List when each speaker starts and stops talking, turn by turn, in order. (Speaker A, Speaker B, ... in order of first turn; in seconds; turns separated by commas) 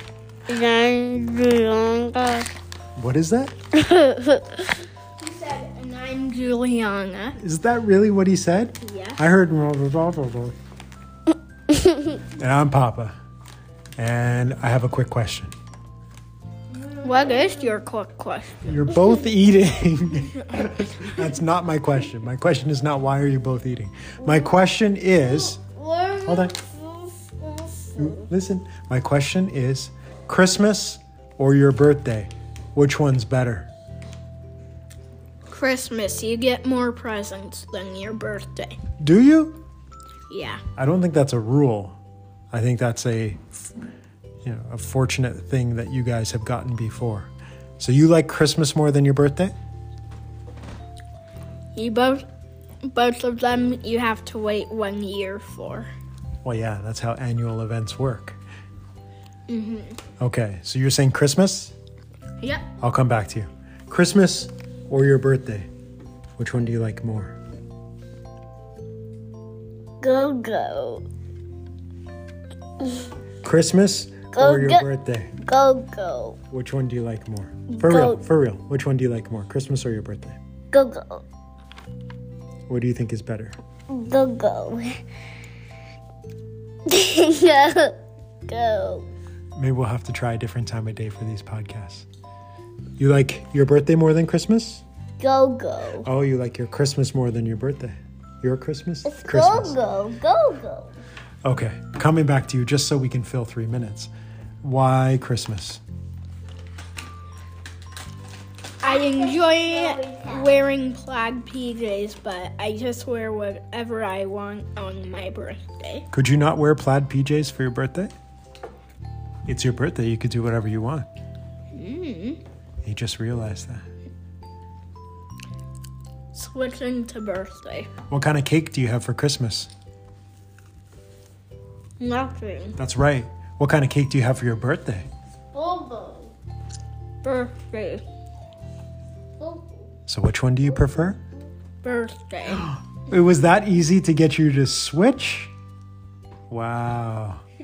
Speaker A: 0.5-2.4, Speaker B: 3.0-3.5, Speaker A: 3.8-4.6, Speaker C: 5.2-7.4, Speaker B: 7.4-10.6, Speaker C: 8.8-9.2, Speaker B: 12.3-13.1, Speaker B: 14.0-15.5, Speaker C: 17.0-18.6, Speaker A: 17.2-17.5, Speaker B: 18.6-25.6, Speaker A: 25.2-28.3, Speaker B: 26.2-26.6, Speaker B: 27.9-33.7, Speaker C: 35.5-38.8, Speaker B: 39.0-39.6, Speaker C: 40.3-40.6, Speaker B: 40.8-42.0, Speaker B: 42.5-43.7, Speaker B: 44.4-49.5, Speaker C: 51.7-52.2, Speaker C: 52.8-55.9, Speaker B: 56.4-58.4, Speaker C: 59.5-60.0, Speaker B: 60.2-61.7, Speaker C: 62.4-62.7, Speaker B: 62.8-65.7, Speaker B: 66.4-67.3, Speaker A: 70.0-71.0, Speaker B: 73.4-75.4, Speaker A: 74.3-74.8, Speaker A: 75.4-76.4, Speaker B: 76.5-80.4, Speaker A: 77.7-78.2, Speaker A: 80.7-81.2, Speaker B: 82.7-83.5, Speaker A: 83.9-85.0, Speaker A: 86.9-89.1, Speaker B: 89.5-92.0, Speaker B: 93.0-94.8, Speaker A: 95.2-96.1, Speaker B: 96.0-99.8, Speaker A: 99.0-100.9, Speaker B: 101.4-104.1, Speaker B: 104.6-105.8, Speaker C: 108.8-116.1, Speaker A: 108.8-110.5, Speaker B: 116.1-118.1, Speaker B: 119.5-121.1, Speaker C: 121.7-122.4, Speaker B: 122.8-123.8, Speaker C: 126.3-127.9, Speaker B: 128.1-129.7, Speaker C: 132.0-132.8, Speaker B: 132.8-135.1, Speaker A: 135.5-136.3, Speaker C: 137.2-138.0, Speaker A: 139.4-139.9, Speaker B: 140.1-141.2, Speaker C: 141.8-142.7, Speaker B: 142.5-145.5, Speaker B: 146.5-147.4